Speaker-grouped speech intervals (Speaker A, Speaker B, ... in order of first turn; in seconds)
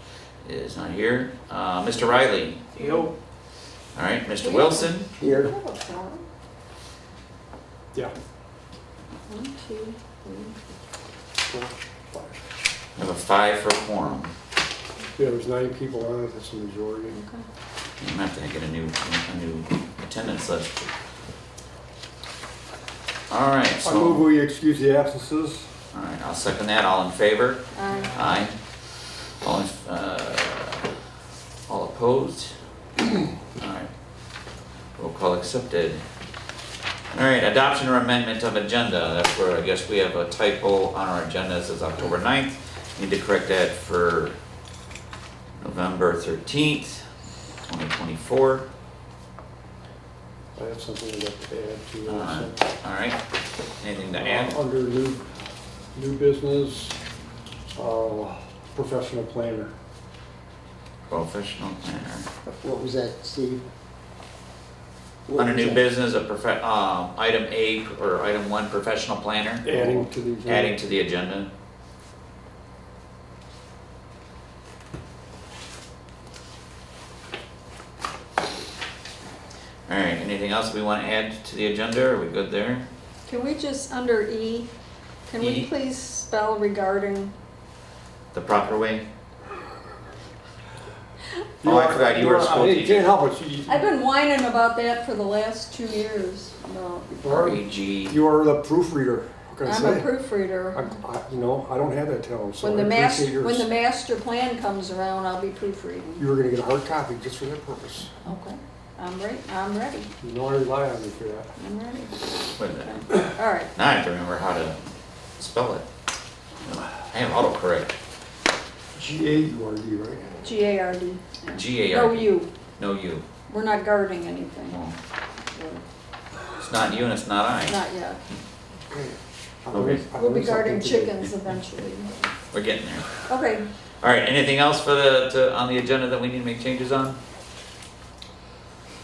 Speaker A: 0.4-2.8, 4.0-5.1, 13.0-14.3, 18.0-20.8, 23.3-24.2, 25.9-28.6, 29.4-30.9, 31.7-32.5, 33.6-33.9, 35.0-36.0, 37.1-44.4, 45.6-47.1, 47.7-48.7, 52.1-53.2, 53.8-54.6, 61.1-62.3, 65.4-71.5, 79.9-82.9, 85.4-85.7, 88.3-89.0, 91.6-93.1, 97.2-98.2, 112.6-113.1, 113.8-114.8, 115.4-115.8, 116.7-117.9, 121.5-123.3, 124.7-125.0, 126.6-127.8, 129.7-130.1, 132.5-133.1, 134.0-137.2
Speaker B: 2.8-3.1, 4.4-6.2, 9.3-10.6, 17.1-17.4, 27.7-28.3, 83.3-84.7, 85.3-87.3, 93.7-97.2, 99.7-101.0, 102.6-106.2, 108.2-110.1, 111.6-113.7, 120.4-122.5, 123.5-124.8, 125.5-125.8, 127.7-128.2, 130.1-132.1, 133.3-133.7
Speaker C: 5.2-5.5, 62.5-63.7, 65.3-65.8
Speaker D: 11.5-12.4, 15.2-17.1, 23.8-25.7, 50.6-52.5, 54.1-55.3, 55.9-56.9, 57.8-59.7, 69.6-70.8, 91.6-93.9, 97.1-100.1, 100.8-103.7, 106.2-108.1, 110.2-111.5, 119.0-120.3, 128.9-131.3